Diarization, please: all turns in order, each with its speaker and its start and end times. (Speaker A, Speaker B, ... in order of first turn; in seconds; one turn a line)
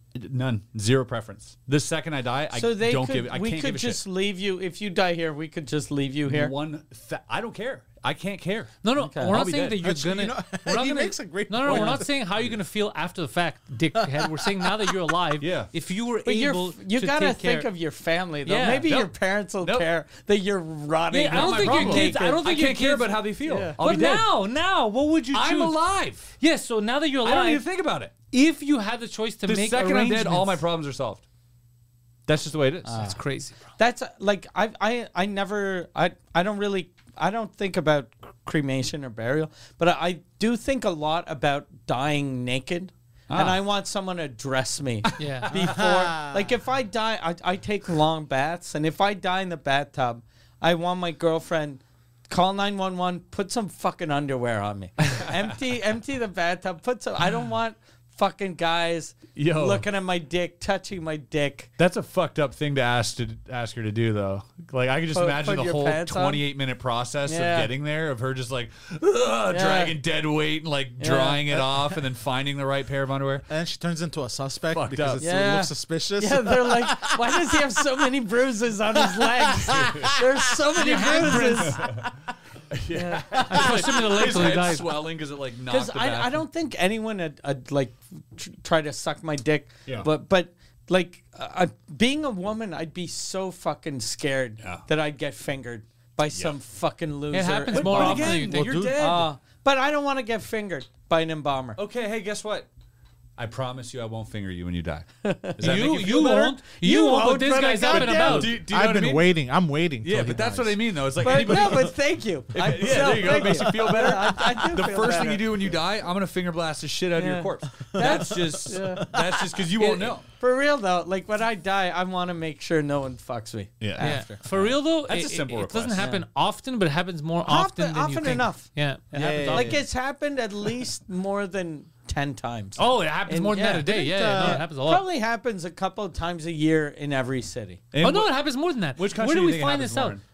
Speaker A: 0.1-4.0
Speaker B: 2.5-6.5
Speaker A: 6.3-9.8
Speaker C: 8.8-17.7
Speaker B: 9.0-9.4
Speaker D: 9.6-12.1
Speaker B: 11.7-12.0
Speaker D: 14.0-15.0
Speaker A: 15.4-15.7
Speaker B: 16.2-22.5
Speaker C: 18.4-18.9
Speaker A: 18.9-19.9
Speaker C: 21.1-25.8
Speaker A: 21.3-24.3
Speaker B: 23.5-23.8
Speaker A: 25.3-26.3
Speaker C: 26.4-27.6
Speaker A: 27.2-28.1
Speaker C: 28.3-30.6
Speaker A: 29.5-31.2
Speaker A: 32.3-33.0
Speaker B: 32.9-33.2
Speaker C: 32.9-33.7
Speaker B: 33.8-61.7
Speaker A: 43.3-43.6
Speaker C: 45.2-45.5
Speaker A: 45.2-45.5
Speaker D: 45.5-46.5
Speaker A: 59.4-59.8
Speaker A: 61.8-73.5
Speaker B: 65.1-66.4
Speaker B: 67.3-67.7
Speaker B: 69.5-70.0
Speaker B: 71.0-71.6
Speaker D: 73.5-77.6
Speaker A: 74.7-75.2
Speaker B: 75.2-82.0
Speaker D: 79.2-80.2
Speaker A: 79.7-80.2
Speaker C: 80.7-81.9
Speaker A: 81.7-82.1
Speaker A: 82.7-86.4
Speaker B: 82.9-84.1
Speaker C: 83.5-85.0
Speaker B: 85.7-101.8
Speaker A: 94.6-94.9
Speaker C: 97.3-98.8
Speaker A: 97.7-99.3
Speaker D: 98.4-99.3
Speaker A: 101.8-102.7
Speaker A: 103.4-106.5
Speaker B: 105.2-108.6
Speaker C: 105.6-108.5
Speaker A: 107.9-109.3
Speaker D: 108.5-111.7
Speaker A: 110.0-112.0
Speaker B: 111.2-115.5
Speaker A: 112.5-120.2
Speaker B: 117.2-124.4
Speaker D: 117.9-118.8
Speaker A: 123.8-126.1
Speaker C: 124.0-129.8
Speaker B: 126.0-126.3
Speaker B: 127.4-128.7
Speaker D: 129.1-129.8
Speaker B: 129.5-137.8
Speaker C: 132.8-135.1
Speaker D: 133.8-134.6
Speaker A: 137.9-138.3
Speaker C: 138.0-140.2
Speaker A: 139.0-140.2